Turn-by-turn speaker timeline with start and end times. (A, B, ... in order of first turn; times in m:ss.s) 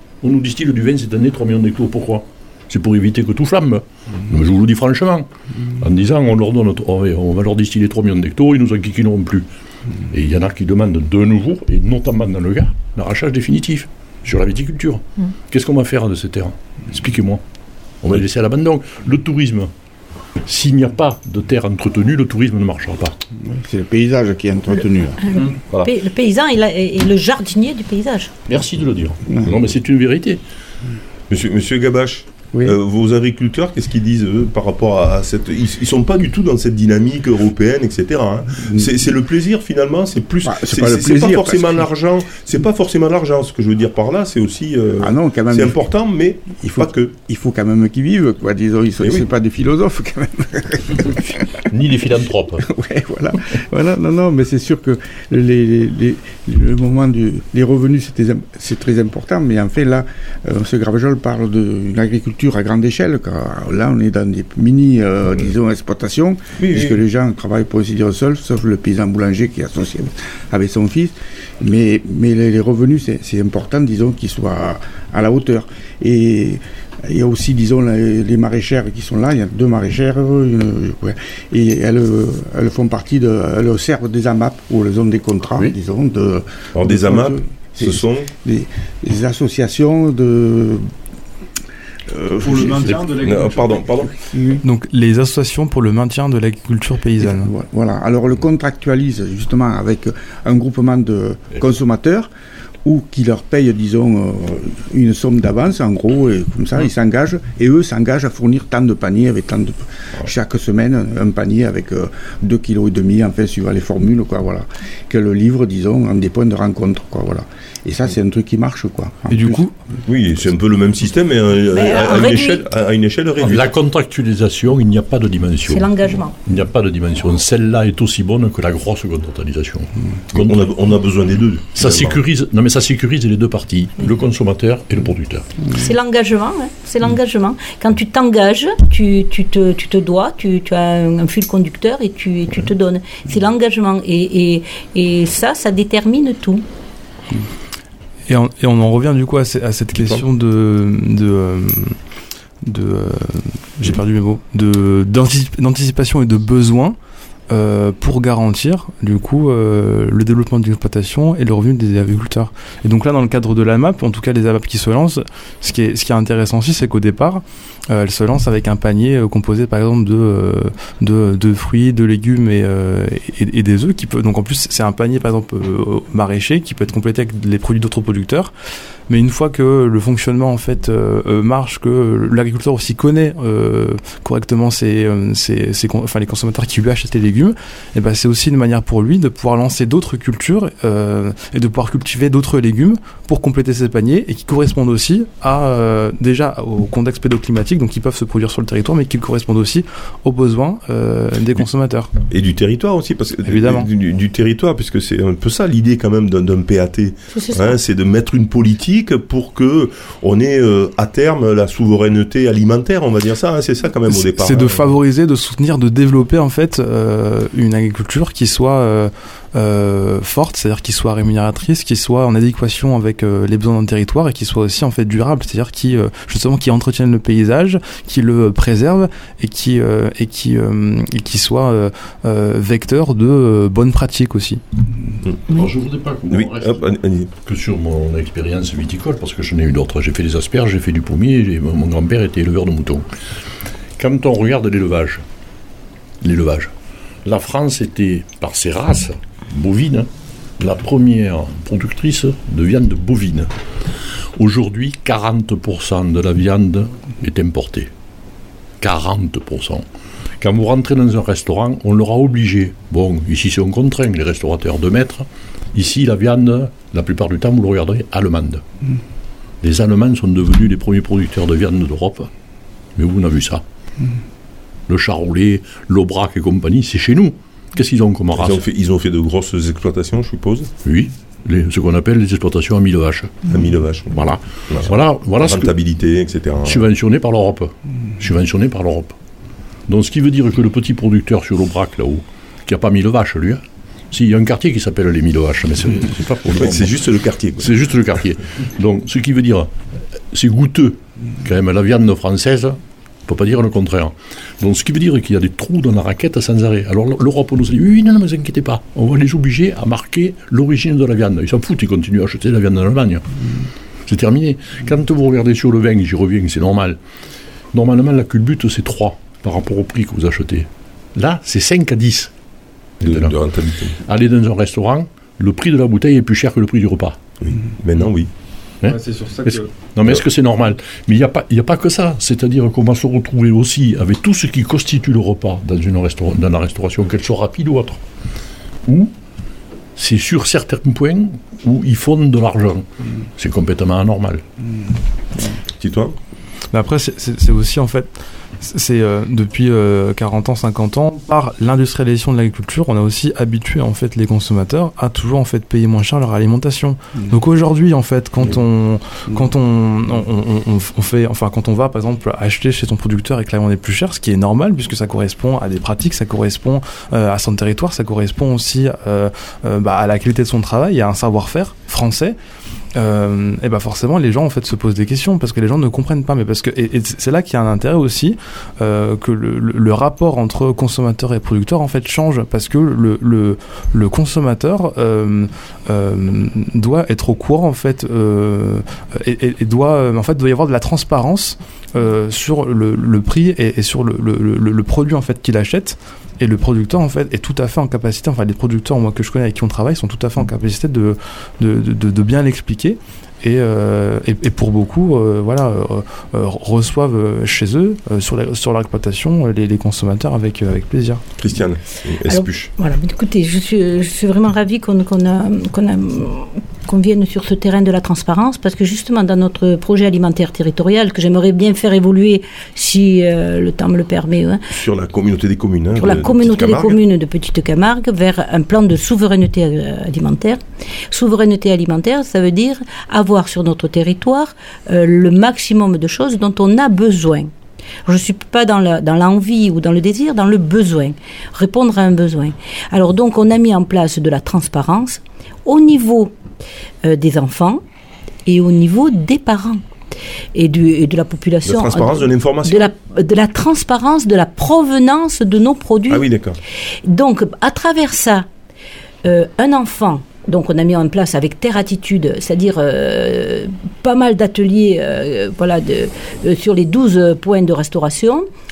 0:00.2-0:09.5 A
0:10.1-0:17.4 A
0:18.0-0:19.7 A
0:20.4-0:23.2 A
0:23.4-0:25.2 B
0:25.2-0:28.3 C
0:28.5-0:30.4 A
0:31.3-0:47.1 D
0:38.6-0:38.9 B
0:40.4-0:41.9 B
0:45.0-0:45.9 B
0:46.6-0:51.7 B
0:51.6-0:52.7 A
0:52.6-1:30.9 B
1:06.6-1:07.0 D
1:26.7-1:28.3 D
1:32.1-1:33.1 B
1:32.4-1:33.4 E
1:32.8-1:33.2 A
1:33.2-1:34.1 D
1:34.3-1:34.6 B
1:34.6-1:37.5 E
1:37.2-1:42.3 B
1:42.8-1:59.6 B
1:59.3-1:59.7 E
2:00.0-2:03.7 D
2:01.7-2:02.6 C
2:03.4-2:05.9 A
2:05.6-2:06.3 C
2:06.4-2:10.6 A
2:10.3-2:12.2 D
2:11.7-2:15.5 A
2:15.7-2:26.6 C
2:28.3-2:32.0 E
2:32.6-2:37.0 E
2:37.5-2:58.5 E
2:59.1-3:22.1 E
3:22.3-3:34.9 D
3:23.4-3:23.9 E
3:27.3-3:27.7 C
3:34.1-3:54.6 E
3:55.5-3:56.8 A
3:56.3-3:57.3 D
3:57.4-4:03.0 A
4:04.0-4:05.2 A
4:06.2-4:06.7 A
4:07.2-4:13.5 A
4:14.4-4:17.9 A
4:18.8-4:19.8 A
4:20.4-4:28.6 A
4:29.6-4:32.3 A
4:33.0-4:33.6 A
4:34.9-4:38.6 A
4:38.3-4:40.7 D
4:40.8-4:43.5 A
4:43.5-4:46.8 D
4:44.1-4:45.7 A
4:46.6-4:49.2 A
4:49.9-4:59.7 A
4:56.5-4:57.7 D
5:00.3-5:13.2 A
5:14.1-5:17.0 A
5:17.7-5:22.3 A
5:23.0-5:24.0 D
5:23.0-5:23.4 A
5:24.0-5:27.2 A
5:27.4-5:28.3 D
5:28.8-5:38.0 A
5:38.8-5:39.1 A
5:40.0-5:42.8 A
5:43.4-5:44.4 A
5:45.8-5:46.2 D
5:46.7-6:12.4 E
6:12.9-6:51.2 E
6:51.4-6:52.7 D
6:52.2-7:04.6 C
7:04.7-7:07.0 D
7:06.0-7:10.6 C
7:11.1-7:17.5 C
7:18.0-7:26.3 C
7:27.0-7:27.8 C
7:28.4-7:29.8 C
7:30.5-7:36.3 C
7:31.6-7:32.9 D
7:36.1-7:36.6 D
7:37.0-7:38.5 C
7:39.2-7:48.5 C